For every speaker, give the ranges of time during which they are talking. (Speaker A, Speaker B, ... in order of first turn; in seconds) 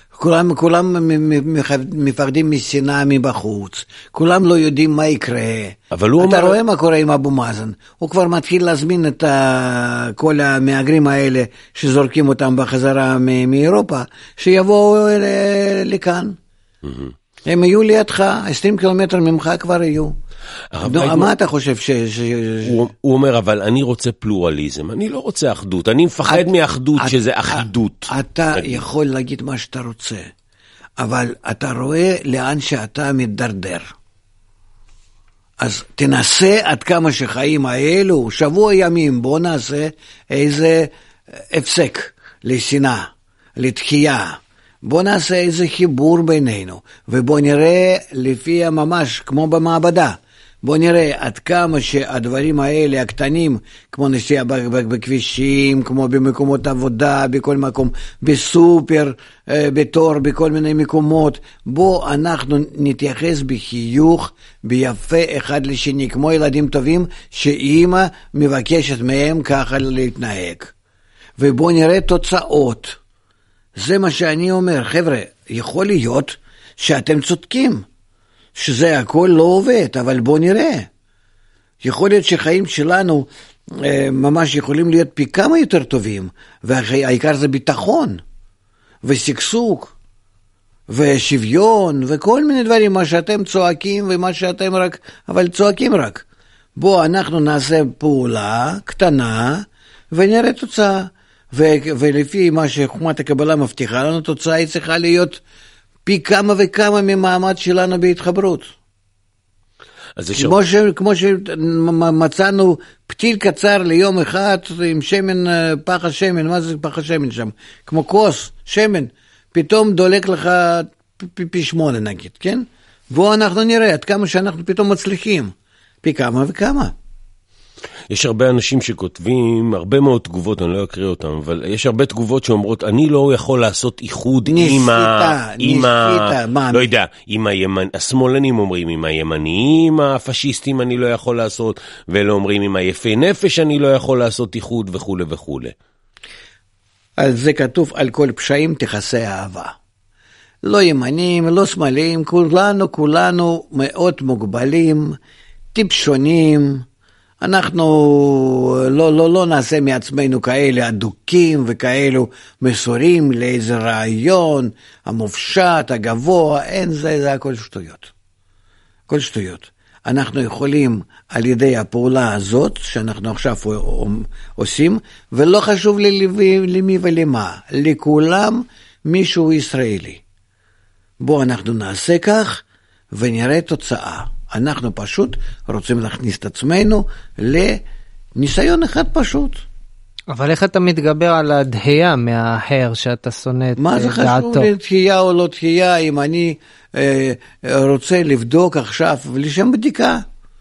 Speaker A: 0.1-16.4, 17.4-20.1, 20.8-22.8, 26.3-30.3, 31.0-33.9, 35.6-70.7, 71.4-73.0, 73.8-77.8, 78.5-80.9, 81.8-88.2, 89.0-89.9, 90.9-96.2, 96.8-105.4, 106.1-108.7, 110.3-126.9, 134.5-136.9, 147.2-149.8, 150.6-155.2, 155.7-156.8, 157.4-168.1, 169.1-180.2, 181.2-187.8, 188.3-189.7, 193.8-200.2
Speaker B: 5.9-6.5, 16.8-17.1, 20.7-21.3, 22.6-28.8, 110.2-110.6, 128.1-145.7
Speaker C: 190.3-194.7